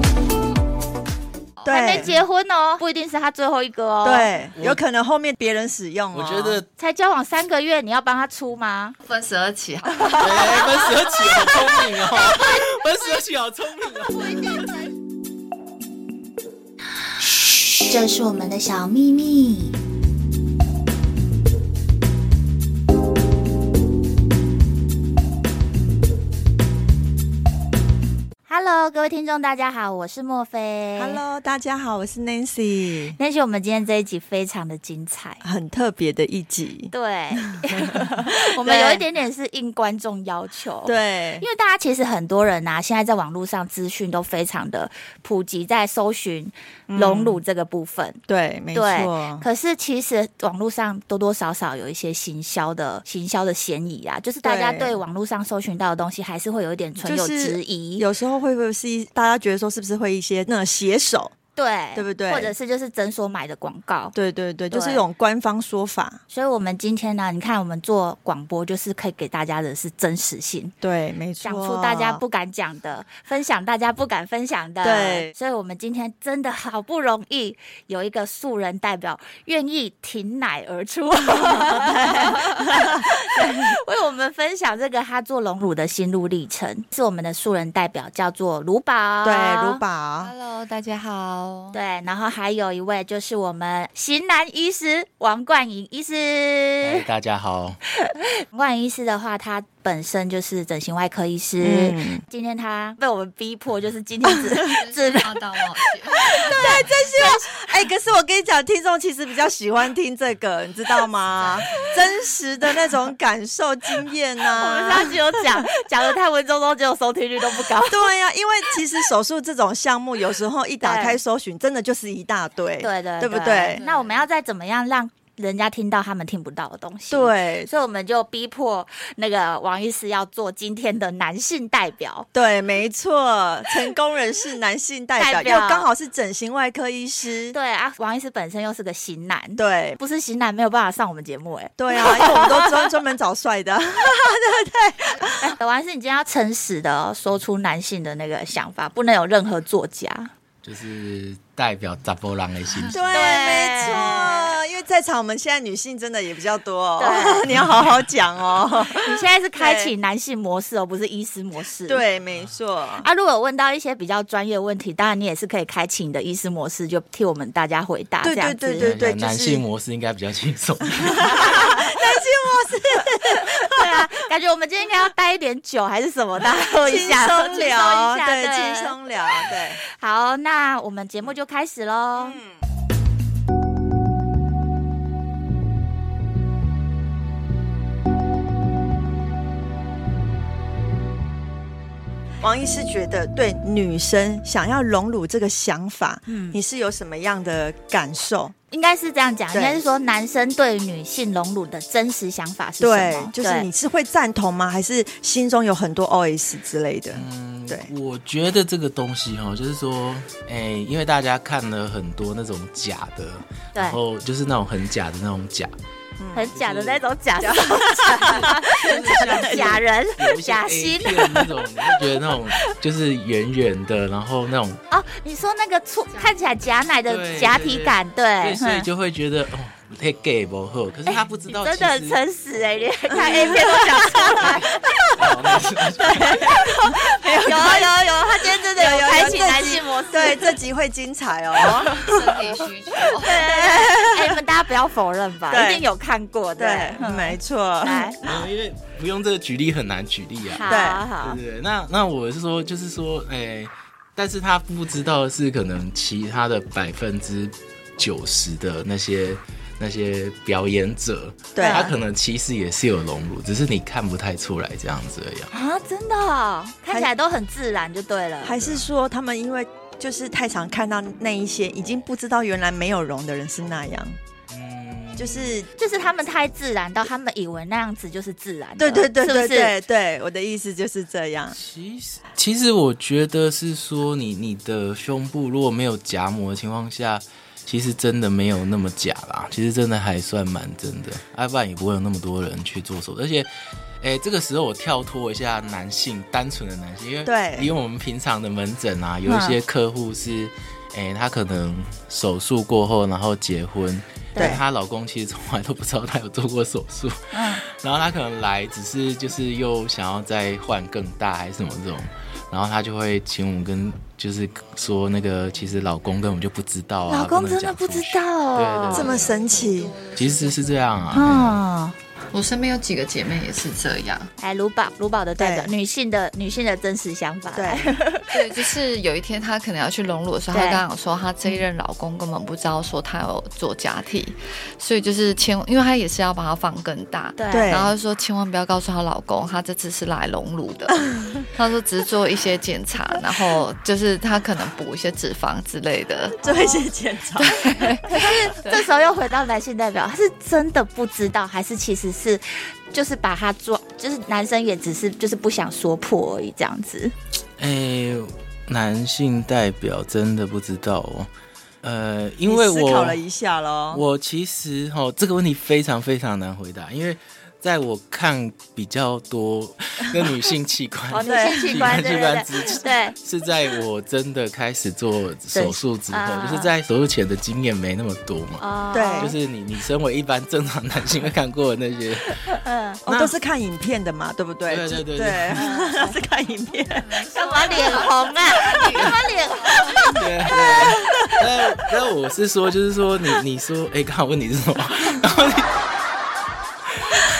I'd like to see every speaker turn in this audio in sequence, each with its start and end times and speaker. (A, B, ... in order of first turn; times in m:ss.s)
0:01.6-0:02.1 A
0:01.6-0:02.1 B
0:01.7-0:04.3 C
0:04.0-0:06.6 B
0:04.6-0:04.8 D
0:06.1-0:06.7 D
0:06.8-0:09.0 C
0:09.0-0:10.8 A
0:10.2-0:14.7 D
0:17.4-0:19.8 E
0:28.5-0:31.2 C
0:31.0-0:33.2 B
0:33.2-0:35.4 C
0:35.4-0:36.9 B
0:36.9-0:48.2 C
0:37.5-0:39.0 B
0:40.8-0:41.4 B
0:46.9-0:47.4 B
0:48.3-0:49.4 B
0:48.7-0:58.0 C
0:54.4-0:55.0 B
0:57.0-1:01.3 B
1:01.6-1:04.1 C
1:01.9-1:02.5 B
1:04.1-1:06.2 B
1:04.7-1:05.0 C
1:06.3-1:10.7 C
1:10.8-1:12.2 B
1:11.4-1:29.8 C
1:14.8-1:15.3 B
1:21.3-1:23.8 B
1:29.2-1:30.3 B
1:30.2-1:31.8 A
1:31.7-1:37.0 C
1:36.8-1:37.8 D
1:38.0-1:45.3 C
1:41.6-1:42.2 B
1:44.5-1:46.9 A
1:46.3-1:55.7 B
1:46.6-1:47.4 C
1:51.4-1:52.1 A
1:54.5-1:58.1 C
1:57.8-2:03.8 B
2:00.8-2:01.2 C
2:02.8-2:12.3 C
2:03.7-2:04.2 A
2:07.1-2:07.7 B
2:12.3-2:17.5 B
2:15.2-2:15.9 C
2:17.5-2:22.8 C
2:19.6-2:20.0 B
2:21.8-2:25.5 B
2:25.4-2:30.3 C
2:30.6-2:33.1 D
2:32.9-2:39.9 B
2:33.1-2:34.6 C
2:37.0-2:37.4 C
2:38.9-2:42.0 C
2:41.9-2:43.0 B
2:43.0-2:48.9 C
2:48.2-2:49.6 B
2:48.8-2:51.5 D
2:51.0-2:54.1 B
2:51.2-2:51.9 C
2:53.2-3:02.4 C
2:56.4-2:59.8 B
3:02.2-3:02.5 B
3:12.4-3:18.5 B
3:16.3-3:16.6 C
3:18.7-3:23.7 C
3:19.5-3:19.8 B
3:22.8-3:27.9 B
3:27.1-3:35.7 D
3:36.2-3:36.5 B
3:36.3-3:42.0 C
3:36.5-3:37.0 D
3:37.4-3:39.8 B
3:38.3-3:44.8 D
3:44.9-3:48.9 C
3:46.1-3:46.4 A
3:47.1-3:52.2 D
3:51.1-3:54.8 C
3:53.1-3:54.7 B
3:55.1-3:56.5 D
3:56.0-3:57.9 B
3:56.3-4:00.5 C
3:58.7-4:02.1 B
4:02.0-4:03.7 A
4:03.2-4:08.2 C
4:03.3-4:04.4 B
4:05.5-4:05.8 B
4:06.6-4:08.5 B
4:08.2-4:10.7 D
4:10.5-4:11.4 C
4:10.7-4:11.0 B
4:11.2-4:25.5 D
4:21.5-4:21.9 B
4:21.6-4:21.9 C
4:25.5-4:28.6 C
4:28.4-4:34.2 B
4:28.6-4:28.9 D
4:34.5-4:35.6 D
4:35.2-4:35.7 B
4:35.8-4:39.7 C
4:38.8-4:41.6 B
4:41.5-4:53.5 D
4:54.0-5:19.4 D
4:57.2-4:57.7 B
4:59.2-4:59.6 C
5:04.4-5:04.6 B
5:07.3-5:07.6 C
5:17.1-5:19.1 C
5:18.9-5:21.2 A
5:18.9-5:20.0 B
5:20.1-5:21.6 D
5:21.1-5:22.0 C
5:22.3-5:24.3 A
5:24.4-5:28.0 C
5:25.4-5:25.7 B
5:27.5-5:28.2 B
5:28.3-5:46.4 A
5:30.5-5:30.8 C
5:37.4-5:37.8 C
5:37.5-5:37.9 B
5:46.4-5:47.6 B
5:46.4-5:46.8 C
5:47.4-5:48.9 A
5:48.0-5:57.1 C
5:57.6-6:01.3 D
6:01.8-6:03.2 D
6:02.4-6:04.0 B
6:03.9-6:18.6 D
6:11.1-6:13.2 C
6:11.2-6:12.3 B
6:15.5-6:16.7 C
6:18.6-6:19.3 C
6:18.9-6:19.4 B
6:19.2-6:23.3 D
6:22.5-6:23.0 C
6:23.0-6:27.2 B
6:24.7-6:25.6 D
6:25.5-6:26.2 C
6:26.8-6:30.1 A
6:27.3-6:31.3 C
6:30.1-6:35.7 D
6:30.5-6:31.3 B